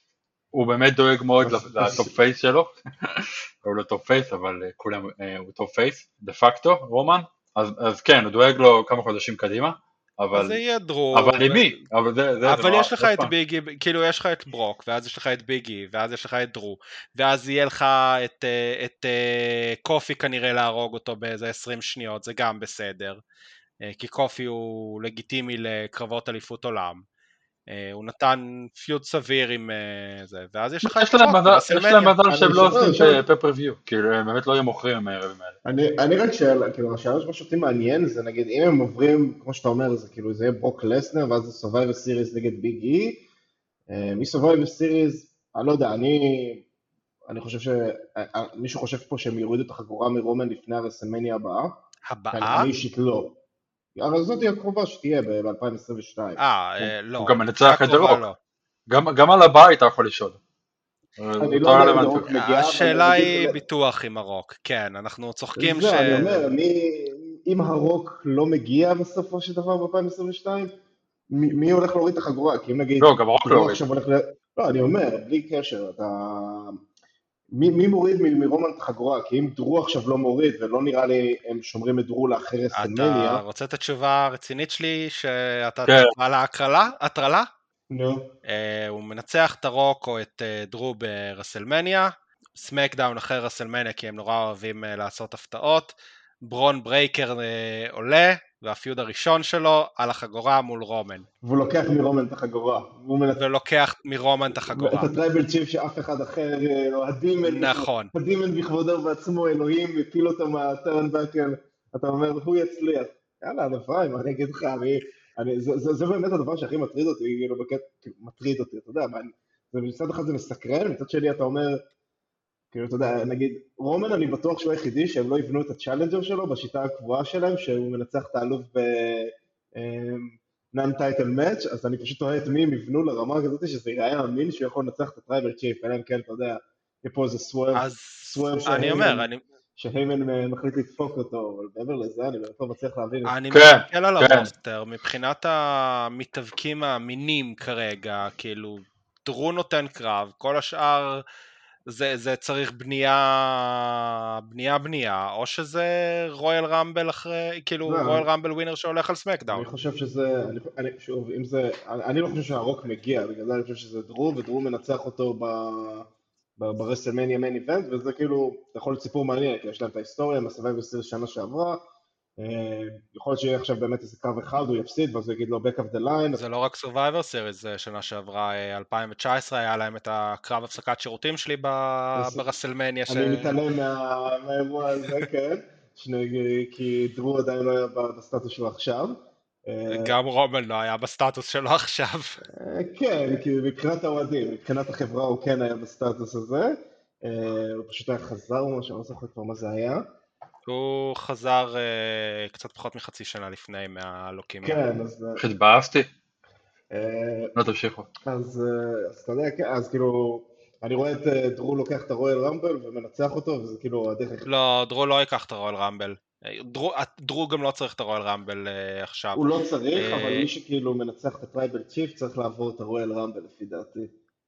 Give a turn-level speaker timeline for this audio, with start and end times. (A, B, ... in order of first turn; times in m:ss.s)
0:00.5-0:10.6 A
0:01.4-0:02.2 B
0:10.3-0:11.7 C
0:11.1-0:13.3 A
0:12.4-0:23.2 C
0:23.8-0:27.0 C
0:27.7-0:32.2 C
0:30.8-0:35.6 A
0:32.3-0:33.2 B
0:35.6-0:43.2 B
0:43.9-0:46.6 B
0:47.3-0:51.8 B
0:52.1-0:52.7 C
0:52.3-0:53.4 B
0:54.0-0:56.9 B
0:56.4-0:58.4 C
0:57.2-0:58.2 A
0:58.9-1:00.4 A
1:01.2-1:02.3 A
1:01.4-1:03.6 B
1:02.3-1:06.5 C
1:05.6-1:10.7 B
1:11.3-1:16.8 B
1:13.0-1:13.8 A
1:17.5-1:23.4 B
1:22.7-1:27.5 C
1:27.9-1:28.3 B
1:28.4-1:35.9 C
1:36.4-1:41.3 C
1:41.4-1:43.4 B
1:43.4-1:45.1 C
1:44.7-2:01.8 B
1:47.4-1:48.1 C
2:02.7-2:19.3 B
2:17.7-2:19.4 C
2:19.8-2:23.4 B
2:23.2-2:31.2 C
2:23.5-2:24.5 A
2:31.9-2:39.7 C
2:37.9-2:38.3 B
2:39.5-2:51.8 B
2:52.4-2:56.4 B
2:56.3-3:03.6 C
3:02.2-3:02.5 B
3:03.1-3:10.2 B
3:09.9-3:12.4 C
3:12.5-3:20.0 B
3:20.7-3:24.8 C
3:24.6-3:25.4 B
3:25.4-3:26.1 A
3:26.9-3:27.5 B
3:27.6-3:28.1 A
3:28.3-3:34.5 B
3:34.5-3:40.5 C
3:39.4-3:44.1 B